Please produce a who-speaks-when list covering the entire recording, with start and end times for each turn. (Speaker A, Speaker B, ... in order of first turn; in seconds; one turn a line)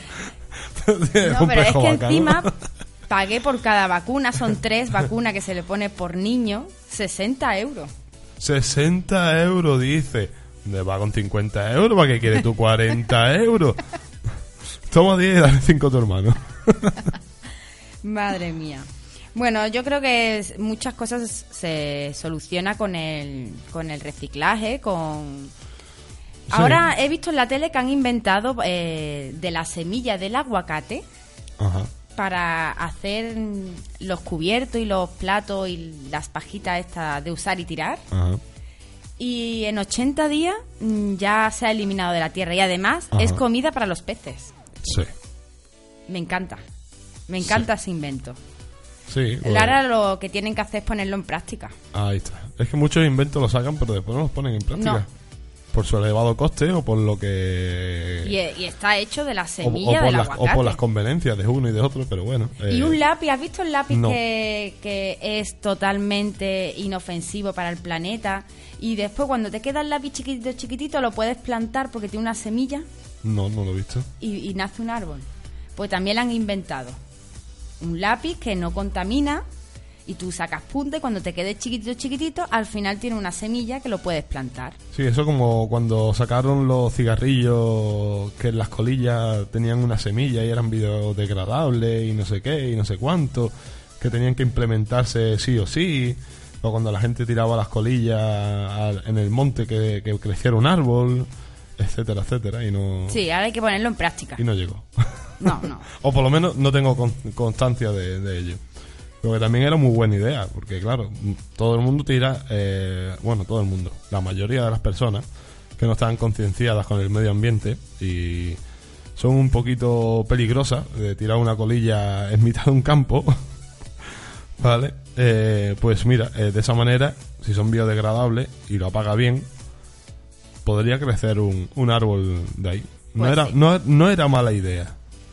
Speaker A: 0.8-2.4
Speaker B: 1.2-2.5
Speaker B: 3.1-7.9
Speaker A: 8.4-13.8
Speaker A: 14.9-16.9
Speaker B: 18.0-25.5
Speaker B: 26.5-31.0
Speaker A: 26.5-26.8
Speaker A: 31.6-31.9
Speaker B: 32.1-38.0
Speaker A: 38.1-38.4
Speaker B: 39.2-44.5
Speaker A: 43.1-43.4
Speaker A: 44.8-45.1
Speaker B: 46.1-46.6
Speaker B: 47.3-48.4
Speaker A: 49.1-49.8
Speaker B: 49.4-51.7
Speaker A: 51.9-55.1
Speaker B: 54.8-55.0
Speaker A: 55.7-58.3
Speaker B: 58.2-60.8
Speaker A: 59.6-63.0
Speaker B: 62.7-72.8
Speaker A: 63.9-64.2
Speaker A: 73.2-74.1
Speaker B: 74.2-77.0
Speaker B: 77.8-79.4
Speaker B: 80.0-84.8
Speaker A: 84.9-103.2
Speaker B: 103.1-104.4
Speaker A: 104.4-105.3
Speaker B: 105.4-105.8
Speaker A: 106.0-108.6
Speaker A: 109.2-115.2
Speaker A: 115.8-118.6
Speaker A: 119.2-123.3
Speaker A: 124.6-129.5
Speaker A: 130.6-134.9
Speaker B: 133.2-133.6